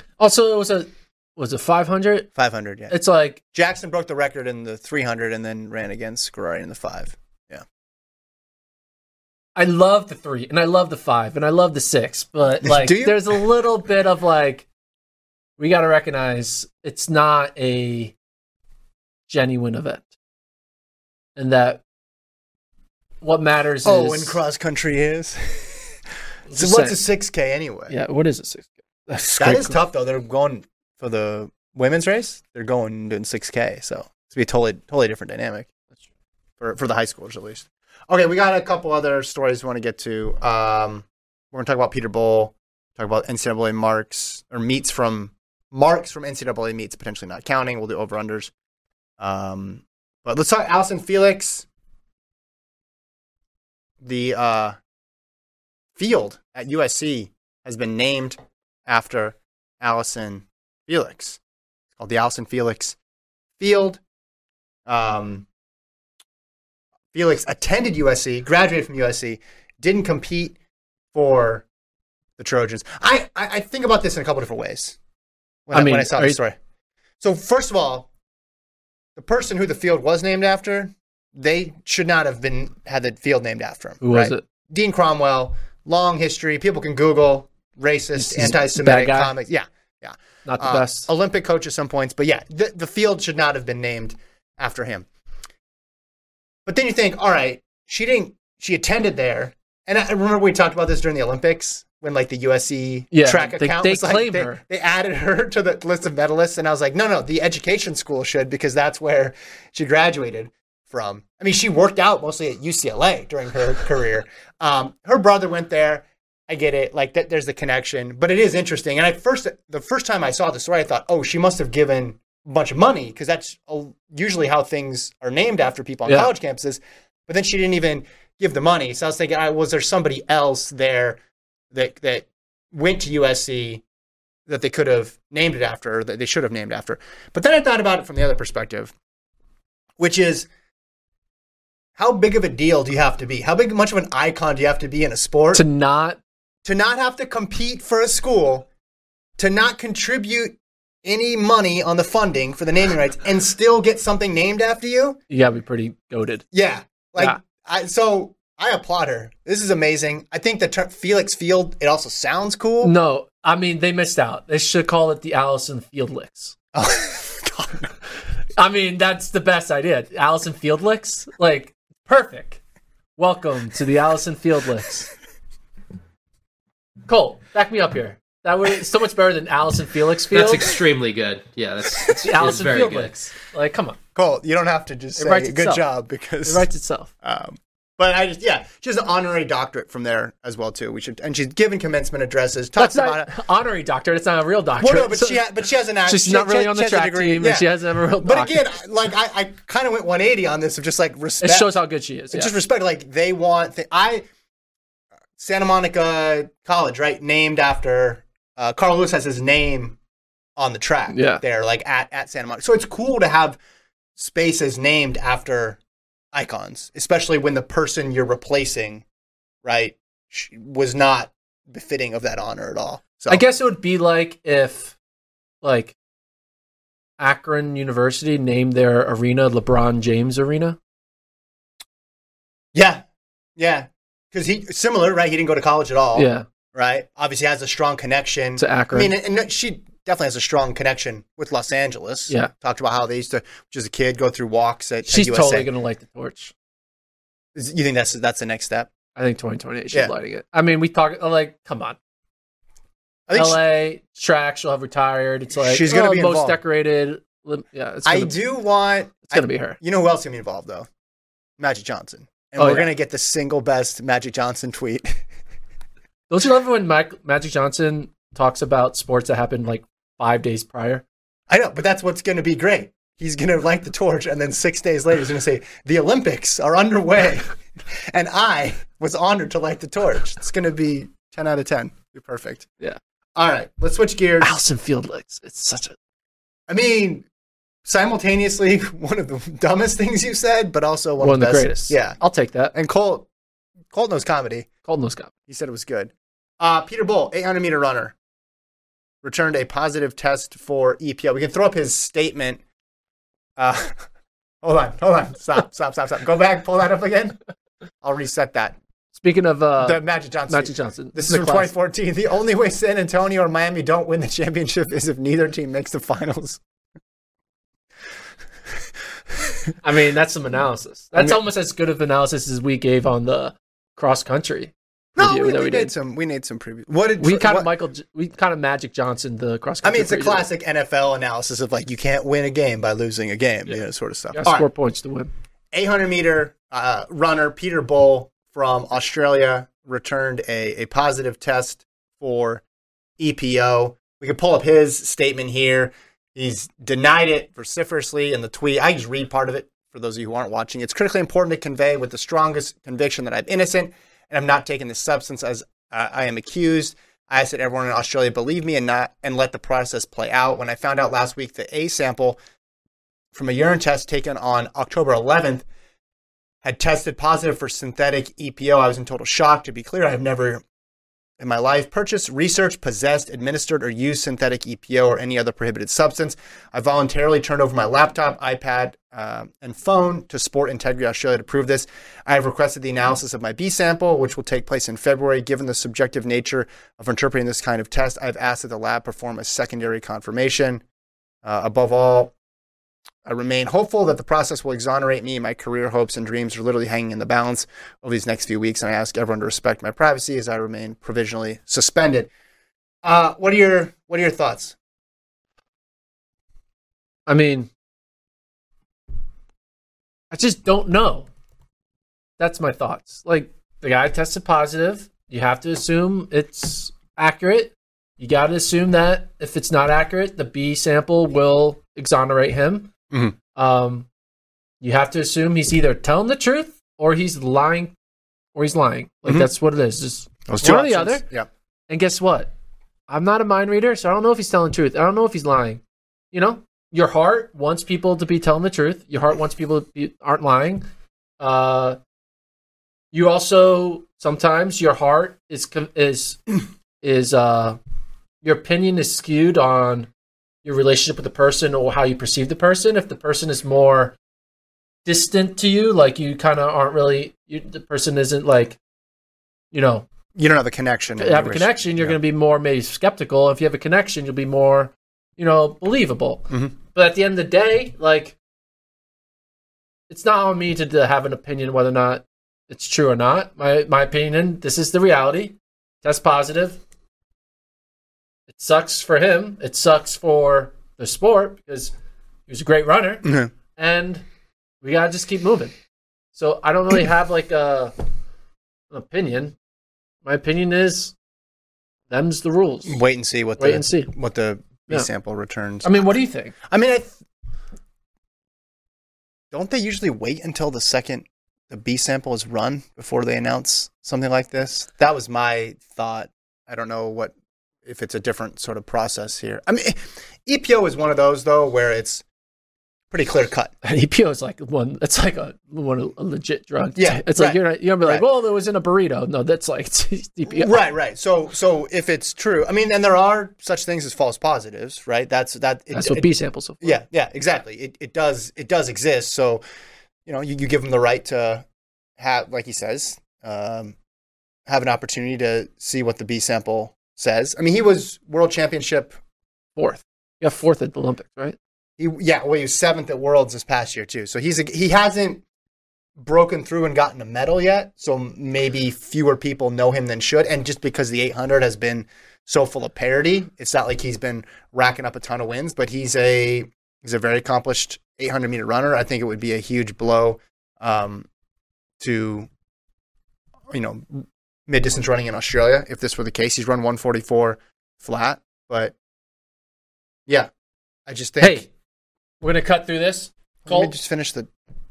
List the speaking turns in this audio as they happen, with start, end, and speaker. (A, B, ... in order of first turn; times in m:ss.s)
0:00.2-0:02.3 A
0:02.4-0:03.0 B
0:02.9-0:03.4 A
0:03.5-0:07.6 B
0:09.6-0:14.7 A
0:12.6-0:13.4 B
0:15.6-0:18.1 A
0:19.3-0:20.1 A
0:21.4-0:21.8 A
0:23.2-0:24.4 A
0:23.8-0:26.0 B
0:26.5-0:27.0 A
0:26.5-0:28.0 B
0:27.9-0:29.8 A
0:29.4-0:35.7 B
0:36.6-0:48.5 B
0:49.2-0:51.7 B
0:54.0-0:54.8 B
0:56.0-1:01.4 B
1:02.0-1:03.0 B
1:03.6-1:04.0 B
1:04.9-1:05.5 B
1:07.1-1:10.6 B
1:11.1-1:11.6 B
1:12.4-1:15.0 B
1:15.7-1:16.6 B
1:15.7-1:16.4 A
1:17.2-1:18.1 B
1:19.2-1:35.1 B
1:24.0-1:24.4 A
1:28.2-1:29.3 A
1:30.4-1:31.1 A
1:36.7-2:11.2 B
1:43.1-1:44.6 A
2:11.7-2:13.8 B
2:14.5-2:18.9 B
2:20.0-2:20.5 B
2:22.0-2:25.6 B
2:25.5-2:26.2 A
2:26.6-2:28.7 B
2:29.4-2:35.2 B
2:35.3-2:36.4 A
2:36.5-2:42.9 B
2:42.8-2:46.6 A
2:46.7-2:47.9 B
2:48.6-2:52.6 A
2:53.2-2:55.1 A
2:57.1-3:00.8 A
3:00.3-3:03.1 C
3:02.2-3:04.0 A
3:04.2-3:06.7 B
3:05.2-3:05.8 A
3:06.4-3:07.1 A
3:07.2-3:13.3 B
3:12.8-3:15.4 A
3:14.8-3:17.7 B
3:16.1-3:18.6 A
3:18.2-3:21.8 B
3:21.4-3:22.5 A
3:22.3-3:24.2 B
3:25.4-3:30.0 B
3:30.6-3:33.6 B
3:31.1-3:31.4 A
3:34.2-3:35.8 B
3:36.3-3:39.0 B
3:39.6-3:43.4 B
3:43.3-3:45.0 A
3:45.6-3:46.0 A
3:47.2-3:50.8 A
3:52.7-3:53.0 B
3:53.6-4:05.7 B
3:56.2-3:56.5 A
3:58.6-3:59.1 A
4:05.1-4:06.5 A
4:07.6-4:08.9 B
4:09.2-4:12.0 A
4:13.3-4:13.6 B
4:13.3-4:18.4 A
4:15.6-4:16.6 B
4:18.0-4:20.9 B
4:19.3-4:19.8 A
4:21.6-4:25.2 B
4:22.6-4:22.9 A
4:26.3-4:31.0 A
4:31.5-4:42.7 B
4:43.4-4:44.6 B
4:44.4-4:46.0 A
4:46.7-4:47.3 B
4:47.8-4:52.2 B
4:51.2-4:52.8 A
4:52.7-4:53.3 B
4:53.9-4:54.7 B
4:54.9-4:55.3 A
4:55.5-4:58.2 B
4:59.2-5:02.6 B
5:03.6-5:04.0 B
5:04.6-5:07.4 B
5:08.0-5:08.8 B
5:09.2-5:11.7 A
5:09.8-5:16.6 B
5:19.8-5:25.9 A
5:25.2-5:27.7 B
5:27.2-5:30.5 A
5:29.8-5:34.7 B
5:34.3-5:35.3 A
5:35.7-5:42.6 B
5:43.2-6:02.4 B
6:03.3-6:05.7 B
6:06.6-6:10.6 B
6:11.4-6:30.8 B
6:31.4-6:32.3 B
6:33.2-6:42.3 B
6:43.0-6:44.8 B
6:47.3-6:47.7 A
6:50.3-6:51.3 A
6:52.4-7:02.9 A
7:03.1-7:03.4 B
7:03.6-7:04.1 A
7:04.8-7:07.9 A
7:08.6-7:11.2 A
7:10.5-7:11.5 B
7:11.9-7:12.5 A
7:13.1-7:15.8 A
7:16.3-7:20.9 A
7:21.4-7:22.0 A
7:23.1-7:26.4 A
7:27.0-7:27.8 A
7:28.4-7:30.1 A
7:30.6-7:34.2 A
7:35.0-7:38.8 A
7:39.7-7:40.1 A
7:40.4-7:42.2 B
7:41.2-7:48.4 A
7:50.1-7:56.8 A
7:58.5-8:01.9 A
8:02.5-8:04.2 A
8:03.2-8:03.5 B
8:04.8-8:05.8 A
8:06.3-8:07.9 A
8:08.9-8:09.6 A
8:10.2-8:11.1 A
8:12.1-8:13.0 A
8:12.9-8:17.2 B
8:13.6-8:14.1 A
8:15.8-8:16.6 A
8:19.5-8:32.2 B
8:33.1-8:33.7 B
8:33.8-8:40.8 A
8:37.0-8:38.3 B
8:40.5-8:46.3 B
8:45.9-8:47.0 A
8:46.8-8:49.6 B
8:50.3-8:51.6 B
8:52.2-8:54.0 B
8:54.7-8:59.2 B
8:59.8-9:01.6 A
9:02.0-9:05.4 B
9:06.2-9:21.3 B
9:22.0-9:22.5 B
9:23.7-9:29.0 B
9:31.1-9:31.7 B
9:31.4-9:31.7 A
9:32.4-9:33.9 A
9:33.6-9:34.5 B